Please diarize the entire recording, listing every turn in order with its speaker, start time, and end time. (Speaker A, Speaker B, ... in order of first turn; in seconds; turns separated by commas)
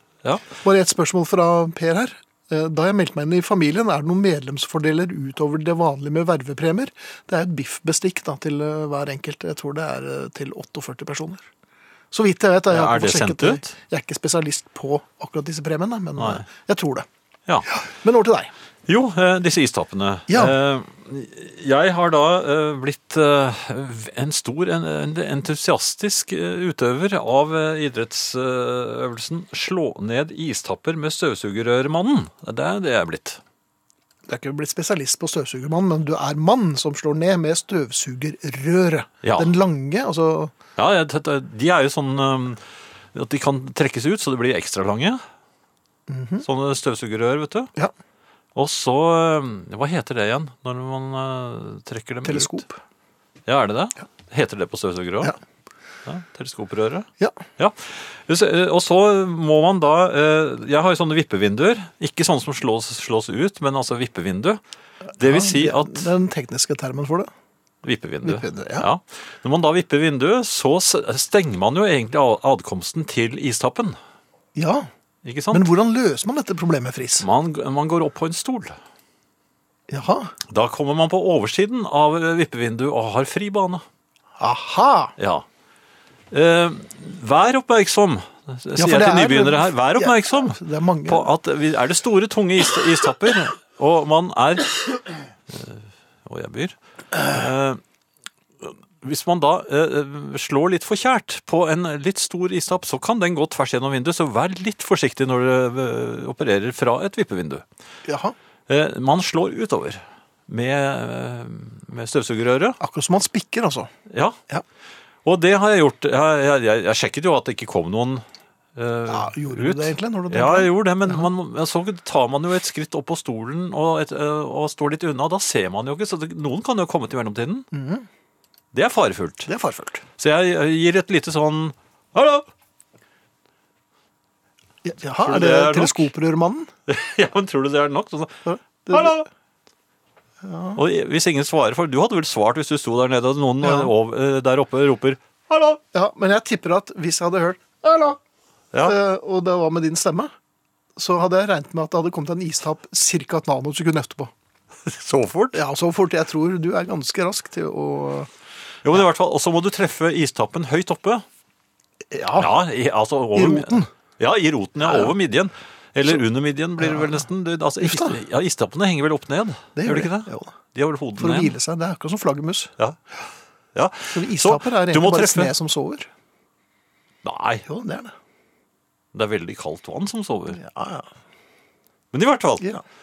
Speaker A: 0.6-11.4, Speaker A: 12.1-17.1, Speaker B: 12.7-13.7, Speaker B: 16.2-16.4, Speaker A: 17.7-18.5, Speaker B: 18.9-33.4, Speaker A: 20.3-20.6, Speaker A: 34.3-40.5, Speaker B: 39.2-39.5, Speaker B: 40.8-42.6, Speaker B: 43.1-45.2, Speaker A: 46.1-46.5, Speaker B: 46.4-47.7, Speaker B: 48.5-52.6, Speaker A: 52.2-52.8, Speaker B: 53.5-55.3, Speaker B: 56.0-64.6, Speaker B: 65.2-66.1, Speaker A: 65.2-67.3, Speaker B: 67.8-74.0, Speaker A: 68.2-68.9, Speaker A: 74.5-74.9, Speaker B: 75.2-75.7, Speaker A: 75.5-77.2, Speaker B: 77.2-78.8, Speaker A: 79.9-80.3, Speaker B: 80.5-83.8, Speaker A: 84.4-85.1, Speaker B: 85.2-85.4, Speaker B: 86.3-95.0, Speaker A: 88.8-91.3, Speaker B: 95.5-97.8, Speaker B: 98.6-107.6, Speaker A: 108.0-108.3, Speaker B: 108.7-112.8, Speaker A: 112.8-113.9, Speaker B: 114.1-114.3, Speaker B: 115.2-118.2, Speaker B: 118.8-127.7, Speaker A: 119.1-121.3, Speaker A: 127.7-128.1, Speaker B: 128.7-129.5, Speaker A: 129.4-130.0, Speaker B: 130.2-132.5, Speaker A: 134.8-136.7, Speaker B: 135.2-136.1, Speaker B: 136.9-138.4, Speaker A: 138.4-139.2, Speaker B: 138.9-139.3, Speaker A: 140.4-140.8, Speaker B: 140.8-145.8, Speaker A: 143.6-143.9, Speaker A: 145.9-148.2, Speaker A: 148.8-150.3, Speaker A: 150.9-154.3, Speaker B: 154.9-155.6, Speaker A: 155.5-158.3, Speaker B: 158.8-161.2, Speaker A: 162.1-162.5, Speaker B: 162.3-171.5, Speaker A: 163.3-163.9, Speaker A: 164.8-165.1, Speaker A: 166.8-167.2, Speaker A: 167.8-168.2, Speaker A: 169.8-170.5, Speaker A: 171.2-172.7, Speaker B: 173.7-175.5, Speaker A: 174.1-176.1, Speaker B: 177.2-177.7, Speaker A: 177.7-178.1, Speaker B: 179.1-180.6, Speaker A: 180.5-181.1, Speaker B: 182.1-182.7